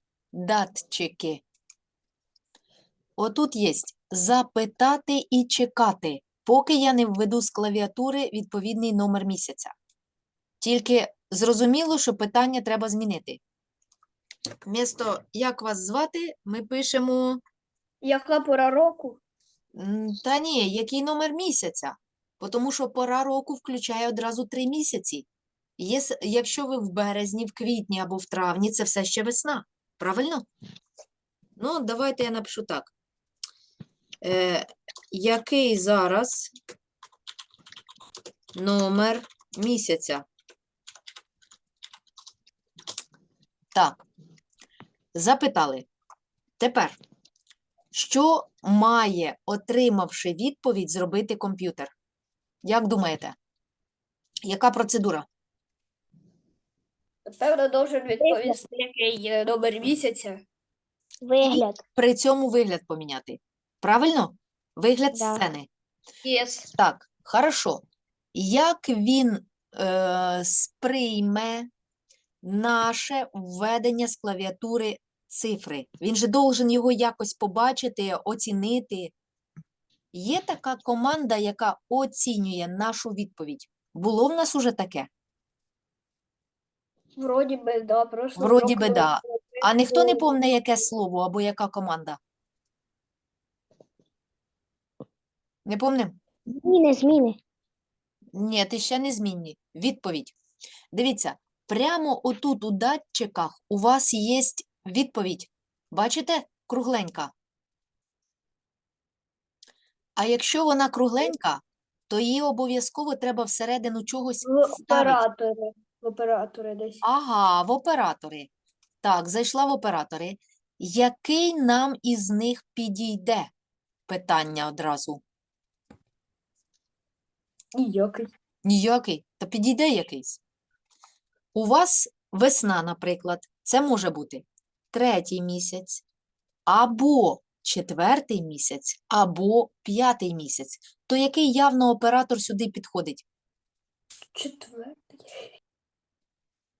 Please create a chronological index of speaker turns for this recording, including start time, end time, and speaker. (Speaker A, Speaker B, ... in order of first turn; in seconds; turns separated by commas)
Speaker A: 0.3-1.4, Speaker A: 3.2-9.7, Speaker A: 10.6-13.4, Speaker A: 14.7-17.4, Speaker B: 18.0-19.2, Speaker A: 19.8-25.3, Speaker A: 25.8-30.5, Speaker A: 31.6-32.9, Speaker A: 34.2-36.5, Speaker A: 38.5-40.2, Speaker A: 43.7-44.0, Speaker A: 45.1-45.9, Speaker A: 46.6-47.0, Speaker A: 47.9-51.9, Speaker A: 52.6-53.4, Speaker A: 54.5-55.3, Speaker B: 57.3-60.4, Speaker C: 58.2-58.6, Speaker C: 61.2-61.8, Speaker A: 61.4-65.7, Speaker C: 65.1-65.4, Speaker B: 66.2-66.7, Speaker A: 66.7-67.8, Speaker A: 68.3-71.7, Speaker A: 72.4-79.1, Speaker A: 80.1-85.1, Speaker B: 87.2-90.3, Speaker A: 88.4-92.2, Speaker A: 95.7-96.2, Speaker C: 96.5-97.4, Speaker A: 98.3-100.3, Speaker A: 100.9-107.3, Speaker A: 110.2-115.2, Speaker B: 114.4-117.0, Speaker A: 117.0-118.5, Speaker A: 119.0-123.5, Speaker A: 124.1-125.2, Speaker B: 127.8-128.3, Speaker A: 128.7-130.4, Speaker A: 131.5-136.0, Speaker A: 136.7-143.2, Speaker B: 144.3-145.5